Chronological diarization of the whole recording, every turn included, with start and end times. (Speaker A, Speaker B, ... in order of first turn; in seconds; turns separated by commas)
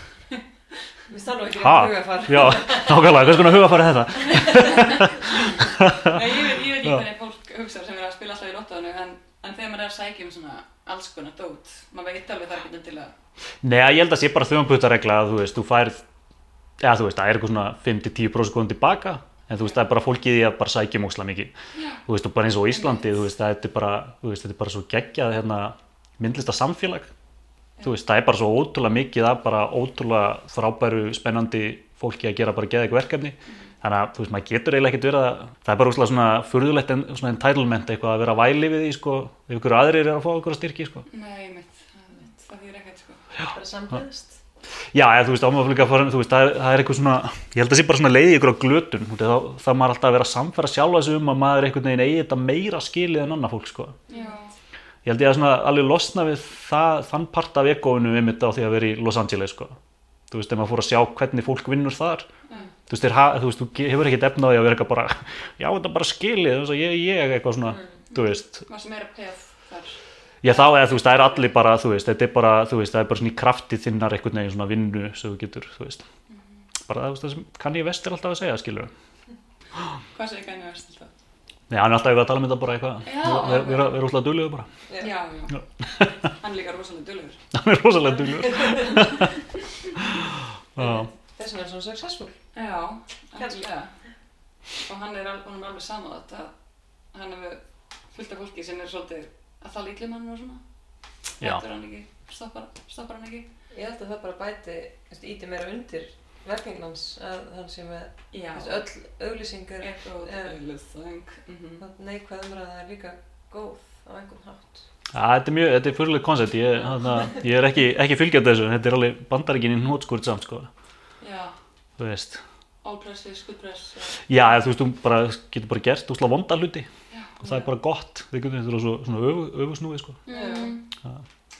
Speaker A: 1.1-3.2, Speaker B: 1.6-6.2, Speaker C: 4.5-13.1, Speaker B: 13.6-16.0, Speaker B: 16.8-21.5, Speaker C: 21.7-22.0, Speaker B: 22.1-27.1, Speaker C: 22.7-23.1, Speaker B: 27.8-41.0, Speaker C: 41.1-43.2, Speaker A: 43.5-44.4, Speaker B: 44.9-54.0, Speaker C: 54.1-54.5, Speaker B: 55.0-59.8, Speaker B: 60.3-62.3, Speaker B: 62.9-68.6, Speaker C: 68.6-71.4, Speaker B: 70.4-76.0, Speaker C: 76.3-76.6, Speaker B: 76.8-78.9, Speaker C: 80.1-81.1, Speaker B: 81.7-84.7, Speaker C: 83.0-84.0, Speaker C: 85.0-85.6, Speaker B: 85.8-86.3, Speaker C: 86.2-87.4, Speaker B: 87.5-89.3, Speaker A: 88.5-88.9, Speaker B: 90.0-91.1, Speaker A: 90.8-92.4, Speaker C: 92.5-93.9, Speaker A: 93.4-93.7, Speaker C: 94.8-96.5, Speaker C: 97.1-100.6, Speaker C: 101.4-103.5, Speaker A: 103.7-110.5, Speaker C: 108.3-108.8, Speaker C: 109.8-111.8, Speaker A: 111.8-114.8, Speaker B: 115.1-120.7, Speaker C: 121.2-121.5, Speaker B: 122.0-122.4, Speaker C: 122.8-124.2, Speaker B: 124.2-126.9, Speaker C: 127.1-127.5, Speaker B: 127.4-130.2, Speaker C: 130.2-130.8, Speaker A: 130.3-130.8